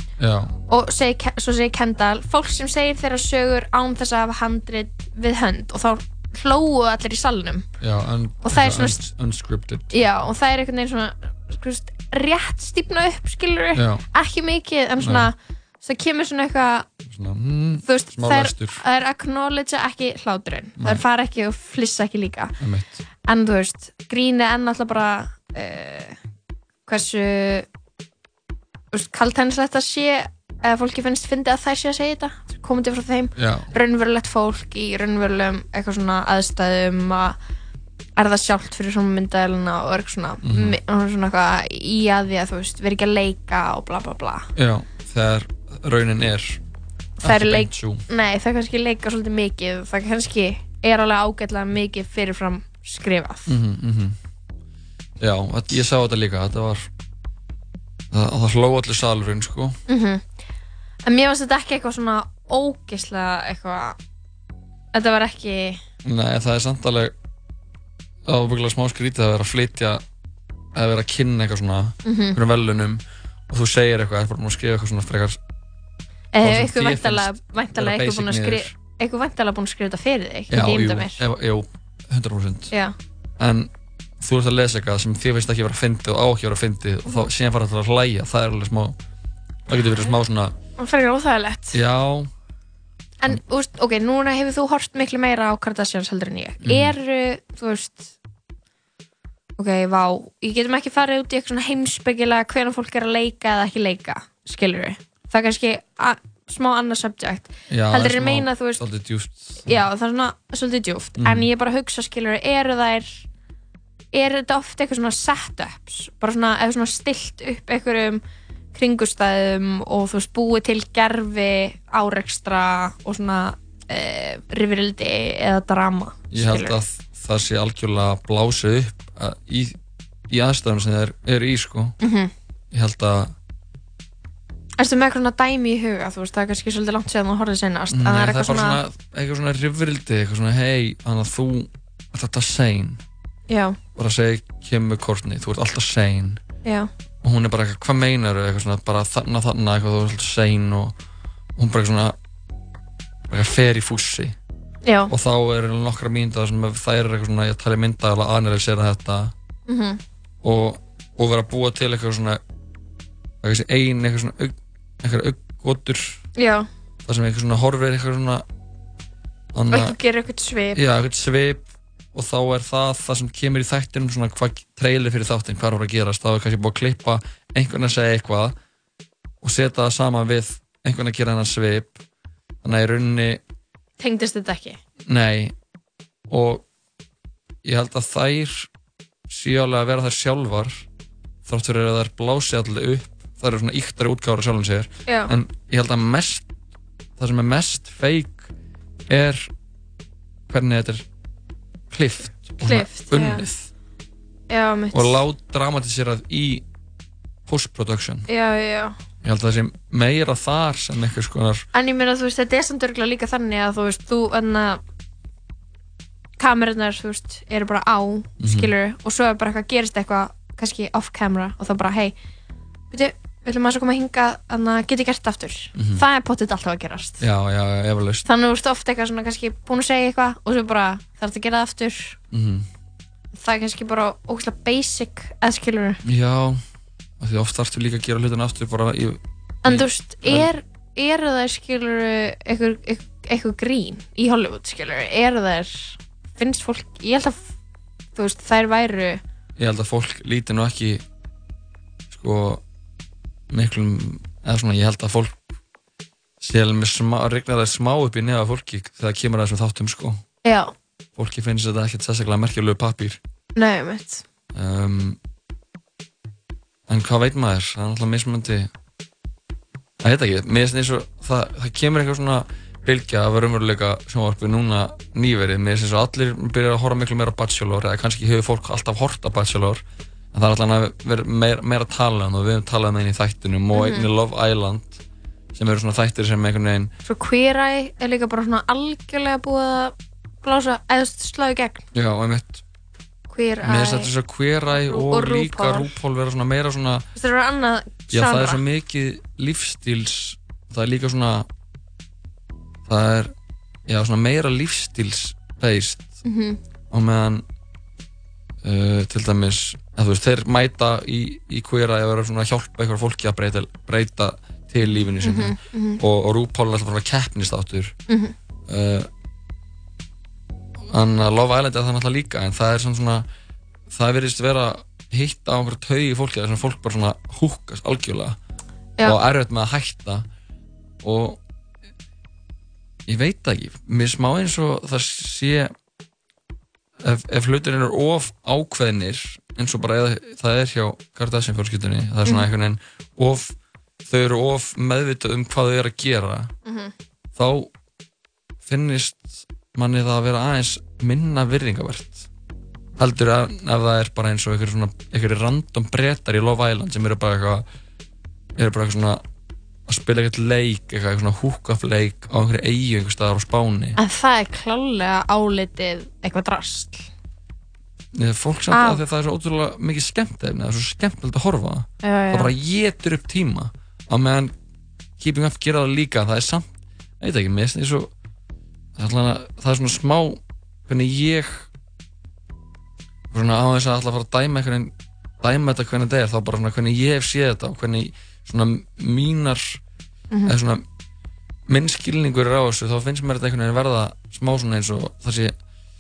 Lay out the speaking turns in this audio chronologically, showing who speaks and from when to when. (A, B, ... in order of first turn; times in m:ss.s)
0:00.2-0:00.6 A
0:00.7-0:07.7 B
0:07.8-0:10.0 A
0:08.4-0:09.0 B
0:09.9-0:16.9 B
0:13.8-0:14.0 A
0:15.0-0:15.3 A
0:17.0-0:18.8 A
0:17.8-0:22.5 B
0:22.6-0:23.0 A
0:23.2-0:26.2 B
0:26.9-0:27.6 B
0:28.9-0:37.4 B
0:33.4-0:33.7 A
0:38.2-0:44.5 B
0:40.4-0:40.8 A
0:44.6-0:46.6 A
0:47.2-0:48.0 A
0:47.2-0:53.5 B
0:53.5-0:54.2 A
0:55.2-0:56.9 A
0:58.1-0:59.8 A
0:59.9-1:00.3 B
1:01.0-1:04.0 B
1:04.9-1:05.8 B
1:06.0-1:07.1 A
1:08.2-1:10.0 A
1:10.7-1:15.4 A
1:12.0-1:12.4 B
1:16.3-1:21.2 B
1:16.4-1:18.7 A
1:20.5-1:22.7 A
1:23.4-1:29.0 A
1:29.7-1:30.5 A
1:30.8-1:31.8 B
1:31.7-1:32.3 A
1:33.2-1:38.1 B
1:36.6-1:36.9 A
1:39.6-1:48.8 B
1:47.7-1:49.8 A
1:49.6-1:53.2 B
1:51.2-1:51.5 A
1:54.1-1:58.2 B
1:58.7-2:06.8 B
2:06.3-2:09.8 A
2:10.3-2:11.9 A
2:12.0-2:12.3 B
2:12.7-2:13.3 A
2:14.8-2:18.8 B
2:17.9-2:23.0 A
2:23.5-2:23.8 B
2:24.0-2:26.4 A
2:27.2-2:30.9 A
2:31.6-2:32.2 A
2:33.3-2:34.4 A
2:34.8-2:35.1 B
2:35.1-2:39.3 A
2:39.7-2:40.0 B
2:40.4-2:42.4 A
2:43.4-2:46.2 A
2:46.4-2:46.7 B
2:47.0-2:48.4 A
2:49.5-2:50.0 A
2:49.7-2:50.8 B
2:50.7-2:58.5 A
2:59.4-3:02.0 A
3:02.6-3:03.4 A
3:04.0-3:04.8 B
3:05.1-3:05.5 A
3:06.3-3:06.6 A
3:07.6-3:08.7 A
3:09.3-3:10.8 A
3:11.4-3:16.4 A
3:15.1-3:15.3 B
3:17.2-3:18.5 A
3:19.1-3:19.5 A
3:20.5-3:21.0 A
3:21.9-3:23.7 A
3:22.6-3:23.4 B
3:24.5-3:25.2 B
3:24.9-3:26.6 A
3:27.5-3:28.2 A
3:28.3-3:28.9 B
3:29.2-3:31.6 A
3:31.7-3:34.8 B
3:36.4-3:42.1 B
3:38.4-3:38.7 A
3:42.9-3:47.2 B
3:45.7-3:46.0 A
3:47.2-3:48.2 A
3:48.2-3:52.2 B
3:52.3-3:52.7 A
3:53.4-3:56.0 B
3:56.0-3:56.6 A
3:57.2-4:00.5 A
3:59.6-4:07.5 B
4:08.2-4:09.2 B
4:09.6-4:11.0 A
4:12.1-4:12.6 A
4:13.5-4:15.3 A
4:16.4-4:20.2 A
4:20.4-4:20.7 B
4:21.2-4:23.2 A
4:23.6-4:24.2 B
4:24.5-4:25.2 A
4:26.9-4:28.7 A
4:30.0-4:45.0 A
4:43.7-4:44.1 B
4:45.5-4:46.9 A
4:47.0-4:51.8 B
4:51.9-4:52.6 A
4:53.3-4:54.1 B
4:53.6-4:57.0 A
4:54.7-4:55.9 B
4:57.2-4:58.6 B
4:58.1-5:01.5 A
5:02.8-5:03.3 A
5:03.9-5:06.2 A
5:06.2-5:06.6 B
5:06.9-5:07.4 A
5:08.6-5:17.9 A
5:15.2-5:16.0 B
5:18.1-5:18.3 B
5:18.7-5:19.1 A
5:20.9-5:23.2 A
5:23.9-5:28.4 A
5:29.0-5:30.2 A
5:31.0-5:31.4 A
5:33.0-5:35.7 A
5:37.0-5:46.5 A
5:46.6-5:46.9 B
5:47.3-5:47.7 A
5:48.6-5:52.3 A
5:53.0-5:57.6 A
5:58.6-5:59.2 A
5:59.9-6:04.0 A
6:04.0-6:07.1 B
6:08.1-6:14.5 A
6:08.7-6:09.0 B
6:12.0-6:12.5 B
6:15.2-6:18.1 A
6:19.0-6:21.7 A
6:23.3-6:29.8 A
6:30.4-6:30.8 A
6:31.7-6:35.6 A